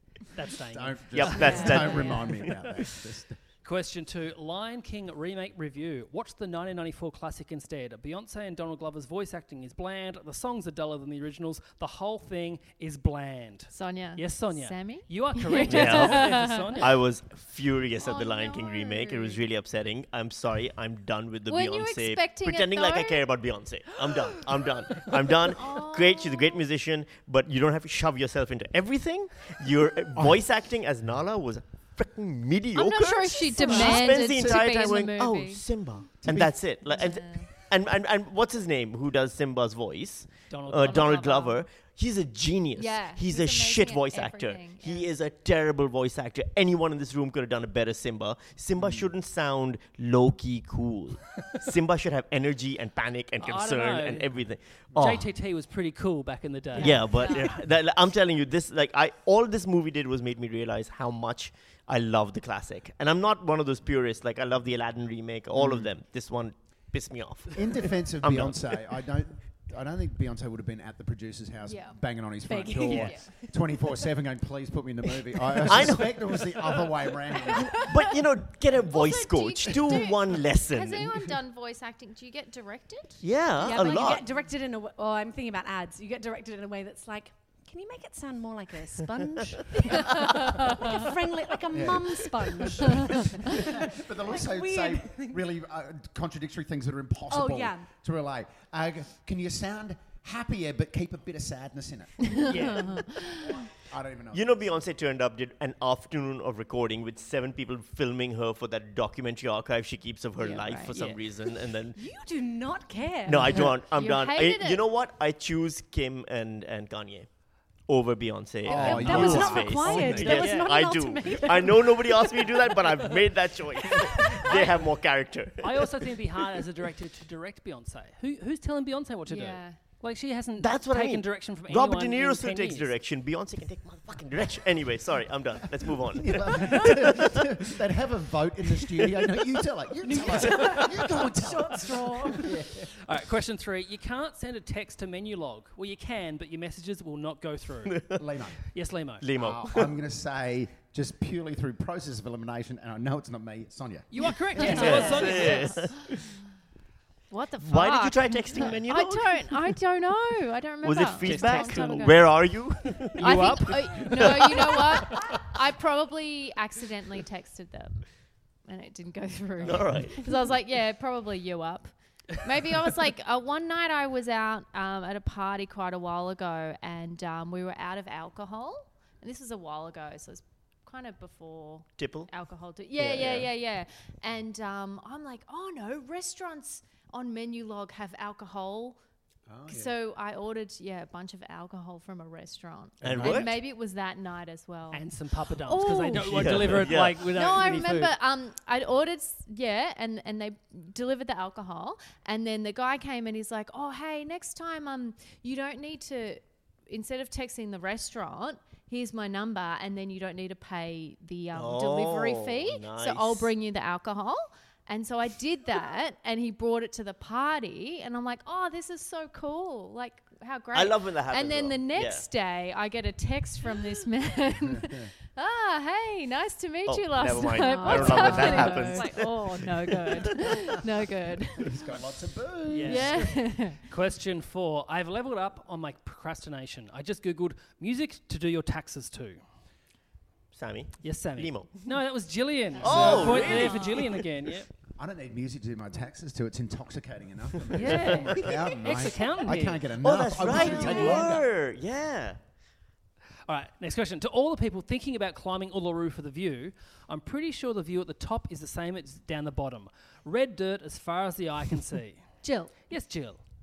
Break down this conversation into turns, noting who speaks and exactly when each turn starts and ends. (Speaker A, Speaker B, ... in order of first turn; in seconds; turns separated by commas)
Speaker A: 0.3-2.6, Speaker B: 0.7-3.4, Speaker C: 1.1-2.5, Speaker D: 1.4-2.2, Speaker E: 1.5-2.2, Speaker A: 3.6-16.9, Speaker E: 13.7-16.9, Speaker C: 15.7-55.3, Speaker E: 18.0-19.4, Speaker E: 21.5-23.2, Speaker E: 25.4-26.6, Speaker E: 32.8-35.6, Speaker B: 36.2-36.7, Speaker E: 36.9-37.5, Speaker A: 40.5-41.4, Speaker E: 40.8-41.6, Speaker E: 42.8-45.1, Speaker B: 48.8-49.1, Speaker A: 53.4-54.3, Speaker A: 55.0-57.5, Speaker C: 56.8-68.6, Speaker E: 57.0-57.5, Speaker B: 65.5-65.9, Speaker B: 67.5-77.9, Speaker E: 71.7-72.0, Speaker D: 72.5-73.2, Speaker A: 72.8-73.2, Speaker E: 72.9-73.3, Speaker C: 75.7-76.4, Speaker C: 77.6-81.3, Speaker E: 78.8-84.2, Speaker C: 83.2-84.2, Speaker D: 83.6-95.4, Speaker E: 89.9-91.0, Speaker B: 91.7-102.5, Speaker D: 97.3-97.9, Speaker E: 102.2-103.5, Speaker A: 102.5-103.0, Speaker B: 103.8-104.7, Speaker C: 104.3-112.0, Speaker E: 110.4-111.0, Speaker A: 110.9-111.2, Speaker D: 112.0-113.7, Speaker C: 113.3-117.3, Speaker E: 113.8-114.8, Speaker C: 117.9-125.9, Speaker B: 118.7-120.4, Speaker A: 118.7-120.9, Speaker D: 118.7-122.7, Speaker A: 124.5-124.9, Speaker A: 125.6-132.9, Speaker E: 129.3-129.8, Speaker C: 130.6-137.3, Speaker B: 136.1-142.9, Speaker D: 140.0-142.4, Speaker A: 140.3-141.3, Speaker A: 143.0-148.2, Speaker C: 147.9-148.2, Speaker B: 148.2-148.6, Speaker A: 148.7-149.3, Speaker C: 149.2-150.0, Speaker B: 149.3-154.9, Speaker A: 154.1-155.8, Speaker E: 154.6-155.8, Speaker C: 154.6-156.2, Speaker E: 157.3-162.3, Speaker C: 157.6-159.8, Speaker C: 160.8-165.2, Speaker A: 161.2-162.3, Speaker A: 163.2-165.4, Speaker E: 163.2-168.1, Speaker E: 168.7-189.0, Speaker C: 169.6-170.2, Speaker C: 182.0-182.3, Speaker C: 183.0-183.5, Speaker B: 189.5-189.9, Speaker E: 189.7-231.7, Speaker C: 193.0-193.5, Speaker B: 193.0-193.4, Speaker A: 194.9-198.2, Speaker C: 196.2-197.2, Speaker C: 211.5-213.5, Speaker C: 220.7-222.3, Speaker B: 224.7-225.1, Speaker C: 226.9-230.4, Speaker D: 227.6-229.1, Speaker B: 231.6-233.5, Speaker A: 232.7-239.4, Speaker E: 232.8-233.8, Speaker C: 240.5-241.8, Speaker A: 241.0-244.7, Speaker C: 242.8-244.2, Speaker B: 242.8-243.3, Speaker E: 243.0-244.0, Speaker B: 245.0-251.4, Speaker A: 247.7-249.9, Speaker C: 247.9-248.5, Speaker C: 250.0-252.4, Speaker A: 250.6-251.2, Speaker E: 250.8-251.2, Speaker A: 253.5-262.3, Speaker D: 262.4-262.9, Speaker A: 262.8-263.4